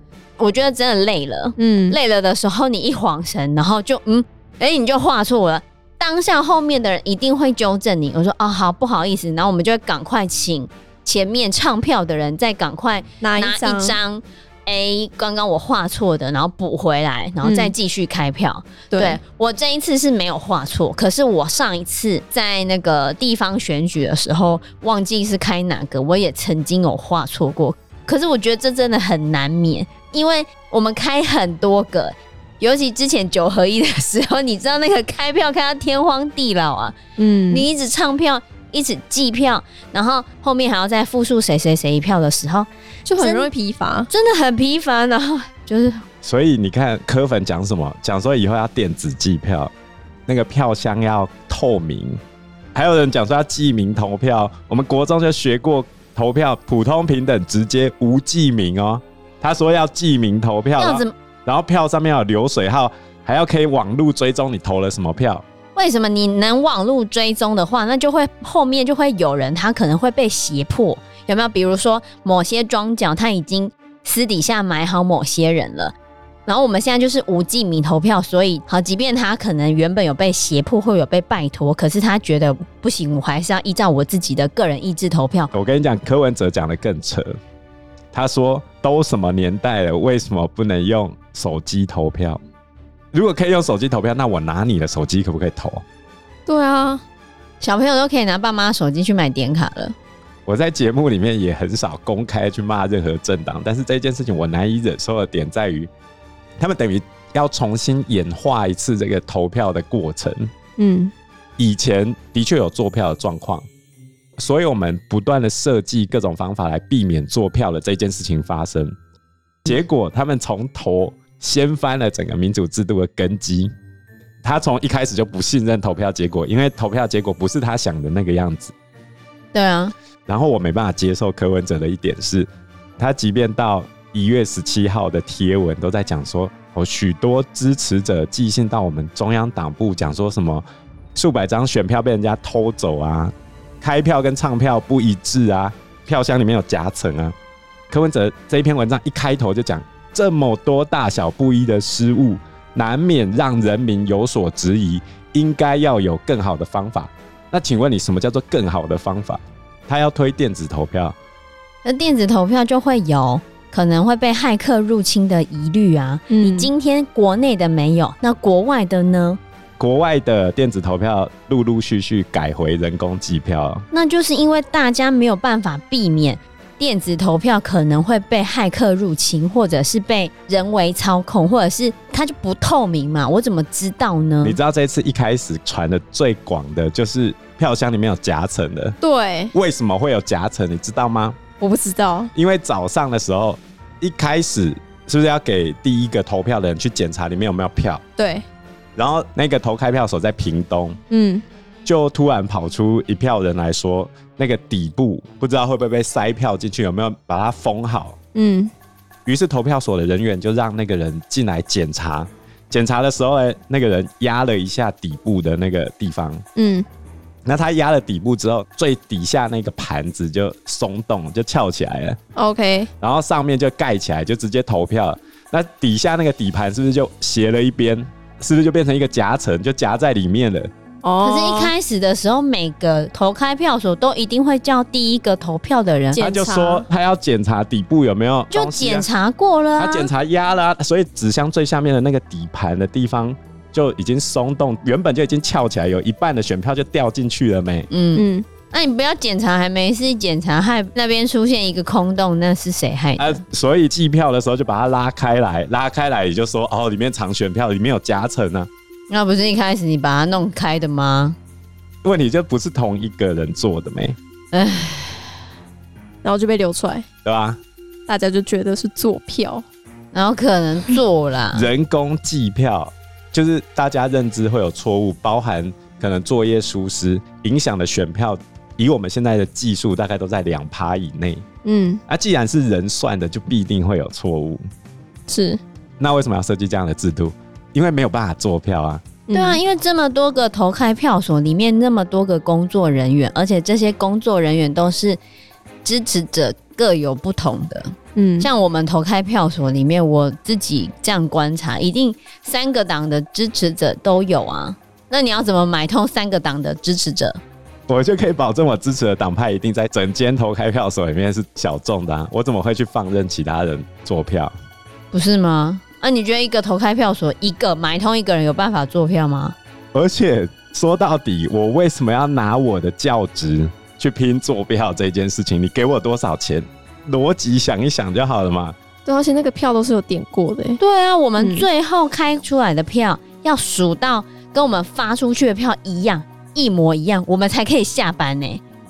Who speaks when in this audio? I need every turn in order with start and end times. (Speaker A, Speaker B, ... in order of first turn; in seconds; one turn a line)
Speaker A: 0.4-37.0
Speaker B: 1.6-2.0
Speaker B: 13.2-14.0
Speaker B: 17.4-17.7
Speaker B: 18.9-19.2
Speaker B: 37.2-37.6
Speaker A: 37.5-43.5
Speaker B: 43.0-44.1
Speaker A: 44.1-46.0
Speaker C: 46.2-49.7
Speaker C: 50.3-52.2
Speaker C: 52.7-65.4
Speaker A: 60.8-61.1
Speaker A: 65.7-75.9
Speaker A: 76.5-85.5
Speaker C: 85.5-87.4
Speaker C: 88.1-92.4
Speaker C: 93.1-95.8
Speaker B: 96.5-97.0
Speaker A: 97.6-99.9
Speaker C: 100.5-105.9
Speaker C: 106.6-110.5
Speaker B: 110.8-111.1
Speaker C: 111.6-113.7
Speaker C: 114.4-118.9
Speaker C: 119.6-123.7
Speaker C: 124.4-128.7
Speaker A: 129.5-129.9
Speaker C: 130.3-147.3
Speaker C: 147.9-161.2
Speaker A: 161.8-169.4
Speaker B: 166.3-166.7
Speaker C: 169.8-173.8
Speaker A: 173.9-184.6
Speaker C: 184.4-189.0
Speaker B: 189.0-189.5
Speaker C: 189.5-191.4
Speaker B: 191.6-192.3
Speaker C: 192.3-198.0
Speaker B: 198.2-198.4
Speaker C: 198.9-201.0
Speaker B: 201.1-201.4
Speaker C: 201.8-208.2
Speaker B: 208.3-208.7
Speaker C: 209.2-216.4
Speaker B: 216.6-216.8
Speaker C: 217.4-222.2
Speaker B: 222.3-222.9
Speaker C: 223.0-230.7
Speaker B: 231.0-231.7
Speaker A: 231.2-236.2
Speaker B: 236.1-236.8
Speaker C: 236.2-239.1
Speaker A: 238.5-240.1
Speaker C: 239.8-247.9
Speaker A: 247.9-253.4
Speaker B: 248.1-248.4
Speaker C: 253.2-258.7
Speaker A: 259.1-261.4
Speaker C: 262.0-264.2
Speaker A: 264.5-265.3
Speaker B: 266.2-267.0
Speaker C: 267.2-267.6
Speaker B: 268.1-269.6
Speaker A: 270.1-271.7
Speaker C: 271.5-281.4
Speaker B: 281.6-282.0
Speaker C: 282.1-284.6
Speaker B: 285.3-285.6
Speaker C: 286.0-289.1
Speaker B: 289.3-289.6
Speaker A: 289.3-295.2
Speaker A: 295.8-307.4
Speaker B: 298.1-298.5
Speaker C: 307.9-314.5
Speaker A: 315.1-319.6
Speaker C: 319.9-328.8
Speaker B: 329.0-330.8
Speaker A: 330.8-338.6
Speaker B: 331.4-331.6